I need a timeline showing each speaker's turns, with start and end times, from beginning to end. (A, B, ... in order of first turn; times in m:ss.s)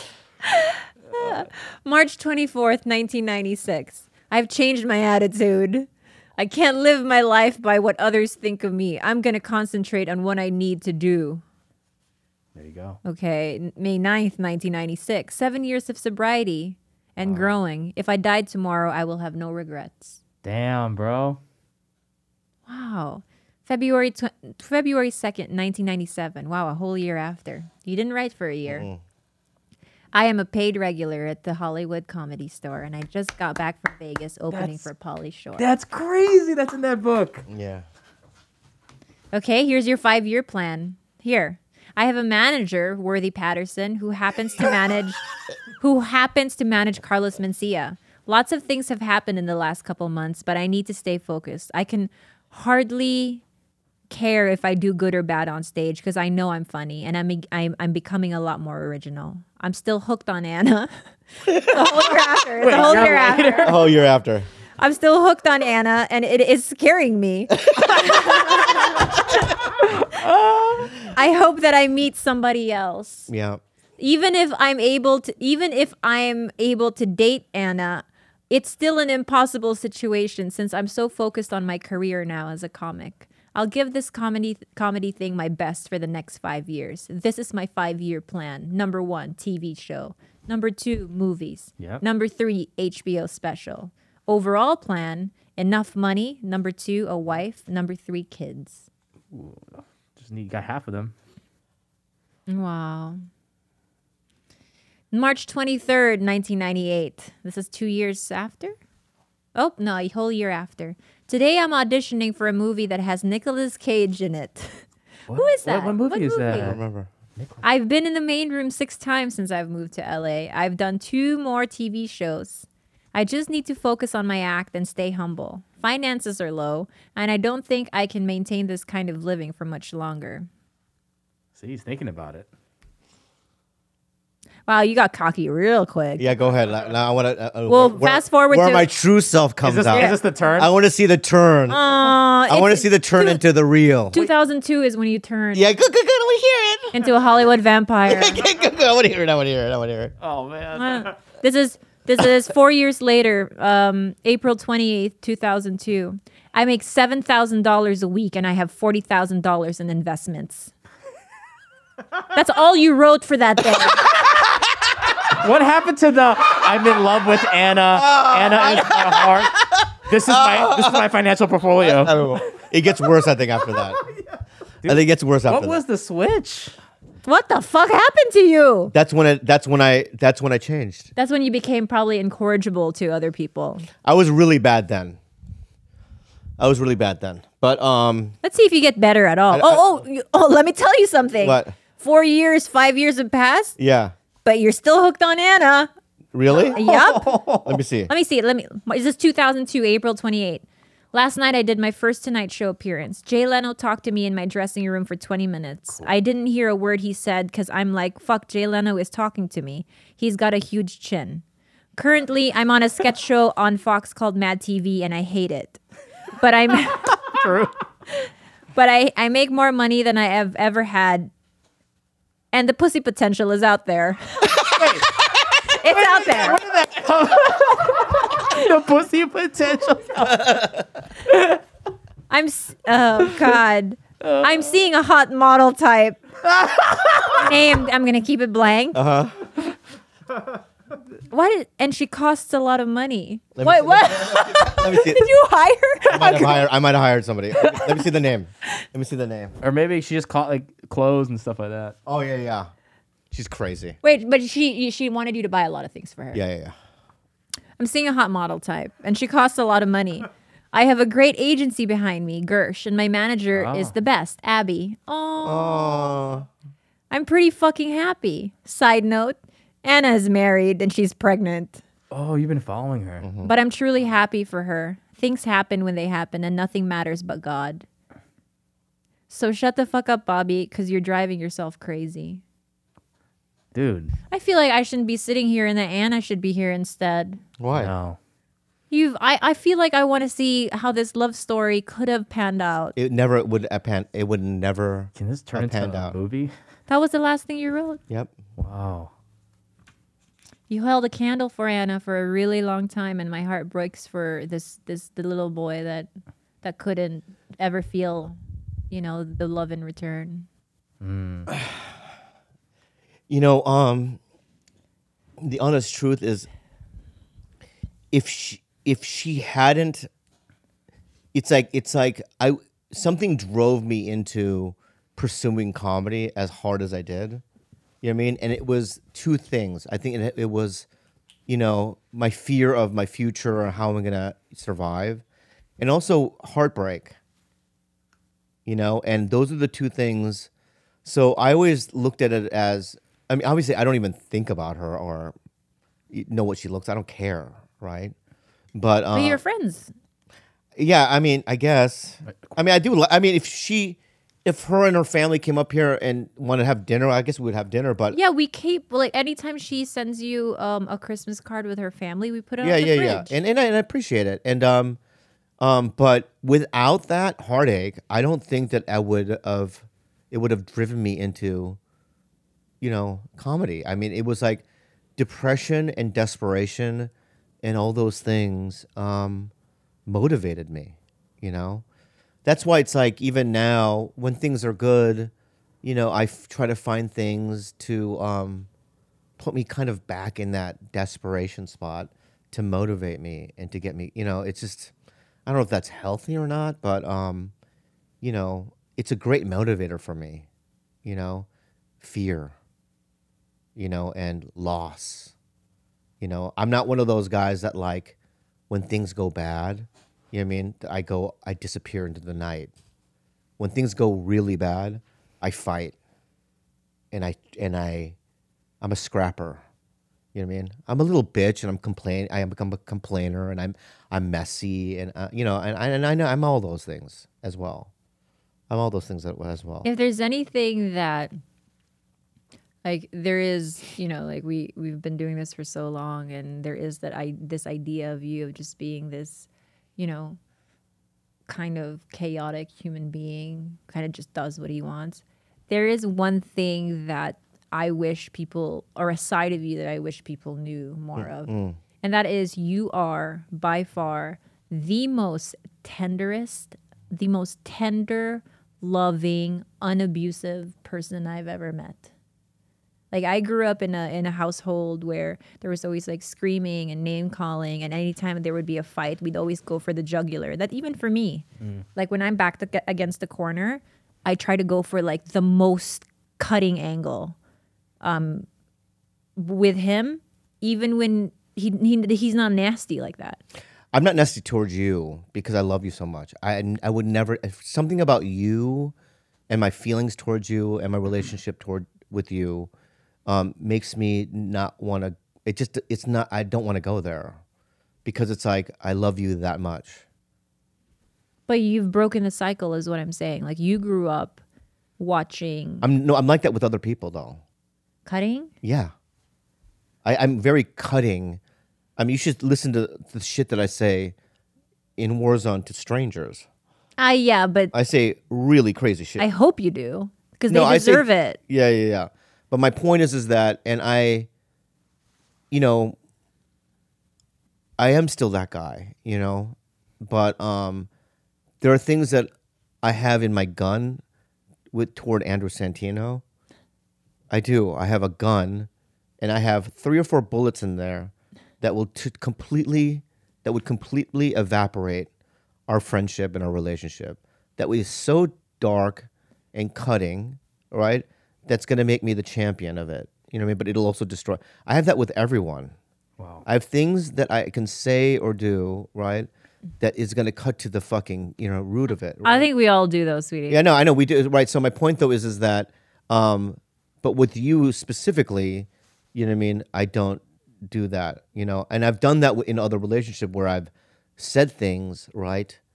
0:00.5-0:11.4 A
0:12.6-0:13.0 B
0:13.0-0:20.2 A
0:17.2-0:17.6 B
0:20.4-0:21.4 B
0:22.7-0:28.9 A
0:28.7-0:29.0 C
0:30.1-0:35.7 A
0:34.5-0:34.9 B
0:35.6-0:37.5 B
0:37.5-0:37.8 C
0:39.3-0:45.2 A
0:45.8-0:53.4 A
0:54.1-1:00.9 A
1:01.5-1:01.8 C
1:01.5-1:03.8 A
1:02.6-1:03.8 B
1:03.6-1:04.5 C
1:04.8-1:09.1 A
1:07.7-1:08.0 C
1:09.8-1:11.0 B
1:11.1-1:13.3 A
1:13.3-1:13.6 C
1:14.0-1:38.9 A
1:39.3-1:41.1 B
1:42.5-1:43.2 A
1:45.1-1:48.8 A
1:49.6-1:54.8 A
1:55.3-1:56.8 B
1:55.4-1:56.8 A
1:56.6-1:57.1 C
1:57.4-1:57.6 B
1:57.6-2:10.5 A
2:11.6-2:12.5 B
2:14.7-2:16.3 A
2:16.2-2:24.3 C
2:17.7-2:18.9 A
2:19.6-2:20.7 B
2:19.9-2:20.2 A
2:21.7-2:23.4 A
2:24.1-2:25.7 A
2:25.5-2:27.1 C
2:26.9-2:28.4 A
2:28.1-2:30.1 C
2:30.2-2:31.0 B
2:30.7-2:40.7 A
2:42.3-2:44.1 A
2:45.2-2:52.4 B
2:47.9-2:51.1 C
2:51.8-2:54.0 C
2:54.8-2:56.8 B
2:54.8-2:55.8 C
2:57.2-2:58.9 A
2:58.9-3:01.1 C
3:01.2-3:03.9 A
3:04.0-3:05.2 C
3:06.6-3:08.4 C
3:08.4-3:13.8 A
3:09.5-3:10.0 C
3:11.4-3:11.8 C
3:13.8-3:14.1 C
3:14.4-3:15.9 A
3:16.3-3:16.8 C
3:16.7-3:17.5 A
3:16.8-3:17.6 B
3:17.6-3:18.1 C
3:18.1-3:31.4 A
3:32.0-3:35.8 A
3:36.4-3:37.2 A
3:37.3-3:37.7 B
3:38.8-3:41.3 A
3:42.5-3:44.8 A
3:44.5-3:45.2 B
3:45.6-3:46.6 A
3:45.9-3:50.7 B
3:50.3-3:50.8 C
3:51.3-3:51.6 B
3:52.3-3:56.2 A
3:54.2-3:54.7 B
3:56.5-3:57.4 B
3:57.3-3:59.0 A
3:58.9-3:59.4 C
4:01.3-4:06.7 A
4:03.6-4:05.3 C
4:06.1-4:09.5 C
4:07.6-4:08.0 A
4:09.6-4:12.0 B
4:12.1-4:12.7 C
4:13.3-4:14.0 C
4:14.0-4:16.4 A
4:16.3-4:16.8 C
4:17.8-4:26.2 A
4:23.5-4:23.9 B
4:25.4-4:26.5 C
4:27.1-4:31.8 A
4:32.1-4:33.3 B
4:33.2-4:33.5 C
4:33.4-4:37.9 A
4:39.3-4:42.4 A
4:43.7-4:44.2 B
4:44.3-4:47.4 A
4:47.6-4:47.9 C
4:47.7-4:48.2 B
4:48.9-4:53.0 A
4:53.0-4:56.2 C
4:55.2-4:56.5 B
4:56.9-4:58.0 A
4:58.6-4:59.1 B
5:00.7-5:06.1 A
5:06.6-5:08.4 A
5:08.9-5:10.5 A
5:11.0-5:11.5 B
5:11.5-5:11.9 C
5:13.3-5:14.2 C
5:15.4-5:16.5 C
5:18.1-5:20.1 C
5:21.3-5:27.4 C
5:28.0-5:30.9 C
5:31.5-5:35.2 C
5:35.8-5:37.2 C
5:38.7-5:40.5 C
5:41.0-5:45.4 C
5:46.1-5:48.2 C
5:48.8-5:49.4 C
5:49.1-5:49.9 A
5:50.8-5:58.2 C
5:58.1-6:03.4 A
6:02.6-6:05.0 C
6:05.6-6:11.8 C
6:12.8-6:14.6 C
6:15.2-6:17.1 C
6:17.6-6:19.5 C
6:20.1-6:21.8 C
6:22.4-6:25.3 C
6:25.8-6:28.7 C
6:29.4-6:34.9 C
6:35.5-6:37.5 C
6:38.2-6:40.5 C
6:41.0-6:41.5 C
6:42.0-6:42.6 C
6:43.8-6:45.3 C
6:46.2-6:48.2 C
6:48.7-6:52.7 C
6:53.6-6:56.0 C
6:57.1-6:58.2 C
6:58.8-6:59.6 C
7:00.3-7:07.9 C
7:08.7-7:09.9 C
7:09.8-7:11.3 A
7:12.8-7:20.4 A
7:21.5-7:42.1 A
7:31.2-7:31.8 C
7:43.1-7:51.4 A
7:52.0-7:57.4 A
7:58.0-7:58.5 A
7:59.4-8:03.4 A
8:03.9-8:08.9 C
8:09.5-8:12.7 C
8:13.3-8:17.4 C
8:18.0-8:20.0 C
8:21.5-8:24.4 A
8:25.0-8:25.9 A
8:25.8-8:27.4 C
8:28.1-8:28.5 A
8:28.6-8:28.9 C
8:30.0-8:31.4 C
8:32.0-8:34.2 C
8:35.0-8:36.4 C
8:37.0-8:37.7 A
8:37.7-8:39.3 C
8:39.2-8:41.4 A
8:40.5-8:44.3 C
8:45.5-8:46.0 C
8:47.8-8:50.9 C
8:51.6-8:52.3 C
8:52.8-8:54.0 C
8:54.7-8:56.2 C
8:57.3-8:58.7 C
8:59.2-9:05.1 C
9:05.7-9:15.7 C
9:16.2-9:16.4 B
9:16.4-9:19.3 C
9:19.8-9:22.5 C
9:22.2-9:23.6 A
9:23.5-9:35.6 C